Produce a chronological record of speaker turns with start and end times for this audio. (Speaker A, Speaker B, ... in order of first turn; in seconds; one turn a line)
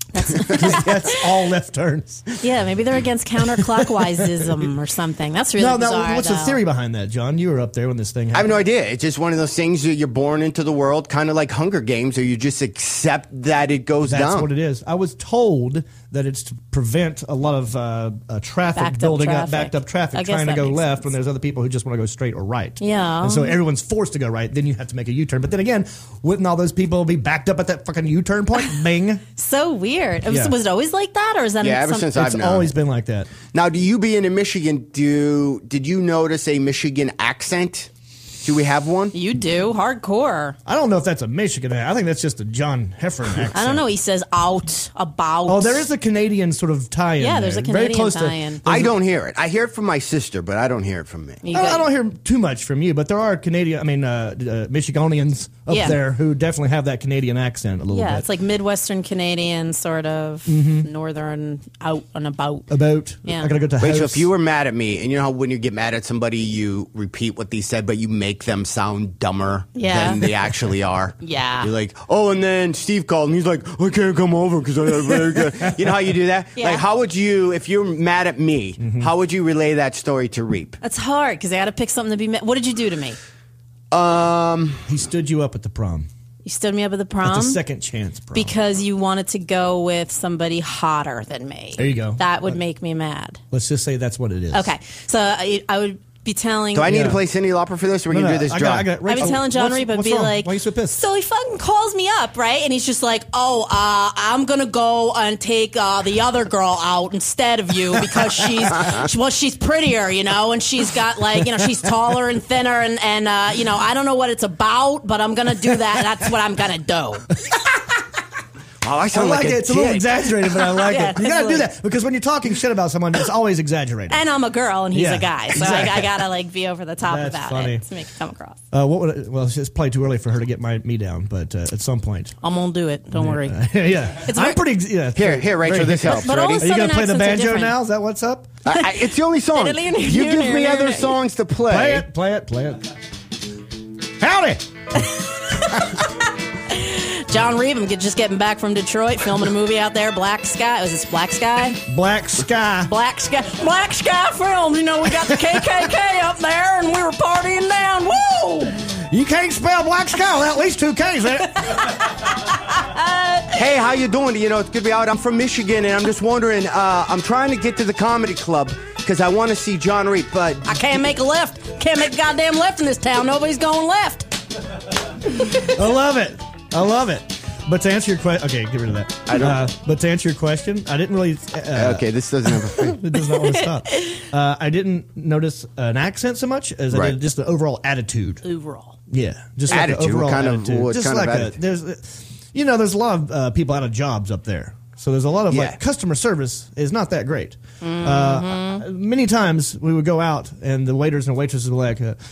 Speaker A: 0.1-1.2
Speaker B: 0.3-2.2
Speaker A: 2.4-6.6
Speaker B: 5.6-8.6
Speaker C: 8.3-14.5
Speaker B: 14.1-29.2
Speaker A: 18.8-21.1
Speaker A: 22.8-23.6
Speaker A: 29.4-32.1
Speaker B: 30.3-30.5
Speaker C: 31.6-32.7
Speaker B: 32.1-33.3
Speaker C: 33.5-37.9
Speaker C: 38.4-39.1
Speaker A: 39.1-40.6
Speaker B: 40.6-43.9
Speaker A: 43.5-45.9
Speaker B: 45.5-48.9
Speaker A: 47.2-48.6
Speaker C: 48.6-51.4
Speaker A: 51.4-51.9
Speaker B: 51.5-58.3
Speaker A: 55.7-56.0
Speaker A: 57.9-62.7
Speaker B: 60.5-60.9
Speaker B: 62.7-64.3
Speaker A: 63.2-63.5
Speaker C: 63.8-80.8
Speaker A: 69.7-70.2
Speaker A: 71.2-71.7
Speaker A: 76.6-76.8
Speaker B: 78.8-79.1
Speaker A: 80.8-83.2
Speaker C: 83.9-84.8
Speaker B: 84.9-86.1
Speaker A: 86.4-87.6
Speaker B: 87.2-88.5
Speaker A: 88.3-93.4
Speaker B: 91.8-92.5
Speaker B: 93.5-94.7
Speaker A: 94.5-97.1
Speaker C: 96.7-99.3
Speaker B: 96.8-97.2
Speaker B: 98.1-101.0
Speaker A: 99.0-117.3
Speaker C: 118.8-120.2
Speaker B: 119.1-124.2
Speaker A: 120.8-121.7
Speaker A: 124.1-128.6
Speaker B: 124.9-126.0
Speaker B: 127.0-127.8
Speaker B: 128.7-132.3
Speaker A: 132.4-133.6
Speaker B: 133.1-138.5
Speaker A: 134.2-134.6
Speaker C: 135.1-136.7
Speaker A: 136.0-137.8
Speaker C: 138.7-142.0
Speaker A: 139.5-141.2
Speaker B: 141.7-142.9
Speaker B: 144.2-144.7
Speaker A: 146.7-151.8
Speaker B: 151.9-152.9
Speaker A: 152.8-158.9
Speaker B: 158.9-161.8
Speaker A: 161.6-162.0
Speaker A: 162.6-163.6
Speaker C: 163.5-170.7
Speaker A: 170.6-174.3
Speaker B: 175.7-188.4
Speaker C: 179.3-179.6
Speaker C: 181.7-183.0
Speaker A: 183.3-184.2
Speaker C: 186.9-187.2
Speaker A: 188.4-189.0
Speaker B: 189.1-202.2
Speaker C: 189.7-191.6
Speaker C: 195.5-195.8
Speaker A: 197.8-198.8